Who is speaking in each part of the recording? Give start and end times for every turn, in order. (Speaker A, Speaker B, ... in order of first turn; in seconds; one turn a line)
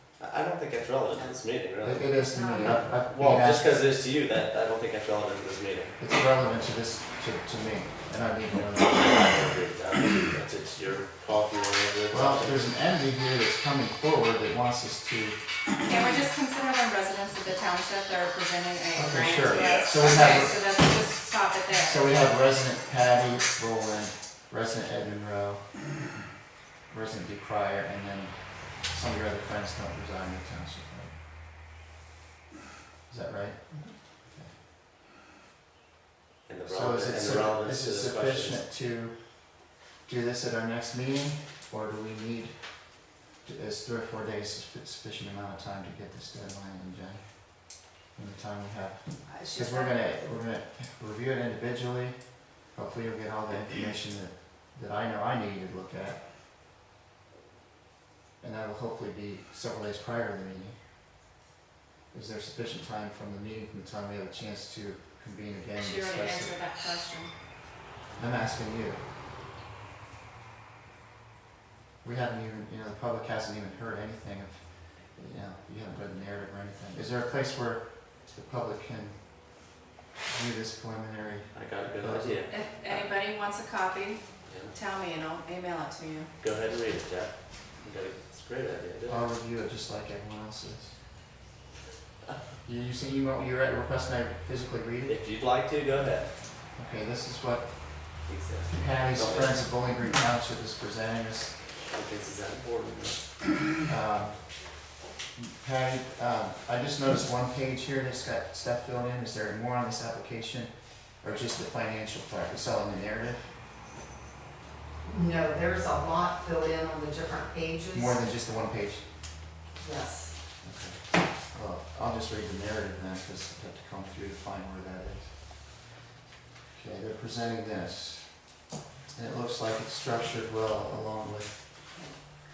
Speaker A: 0.2-2.3
Speaker B: 1.8-3.7
Speaker C: 2.3-3.0
Speaker A: 2.9-6.0
Speaker B: 6.0-9.4
Speaker A: 8.8-12.7
Speaker B: 12.1-15.4
Speaker C: 15.8-22.3
Speaker B: 18.9-20.6
Speaker A: 19.4-20.0
Speaker B: 21.8-25.7
Speaker B: 26.9-31.1
Speaker B: 33.1-34.5
Speaker A: 36.5-38.7
Speaker B: 36.7-42.8
Speaker B: 43.4-56.2
Speaker C: 49.2-50.1
Speaker B: 58.4-60.8
Speaker B: 62.1-66.6
Speaker C: 65.8-67.3
Speaker B: 68.2-69.0
Speaker B: 72.0-79.7
Speaker B: 80.3-82.4
Speaker A: 81.5-83.1
Speaker C: 82.5-86.3
Speaker A: 84.4-84.7
Speaker A: 86.4-89.3
Speaker B: 89.1-91.0
Speaker B: 92.6-95.2
Speaker A: 95.0-96.3
Speaker B: 96.8-98.1
Speaker A: 98.2-99.7
Speaker B: 98.7-101.6
Speaker A: 101.9-103.2
Speaker B: 103.7-104.8
Speaker B: 105.3-113.5
Speaker D: 115.0-118.2
Speaker B: 117.9-119.0
Speaker D: 119.8-120.3
Speaker B: 120.6-125.7
Speaker B: 126.7-128.5
Speaker B: 129.1-131.6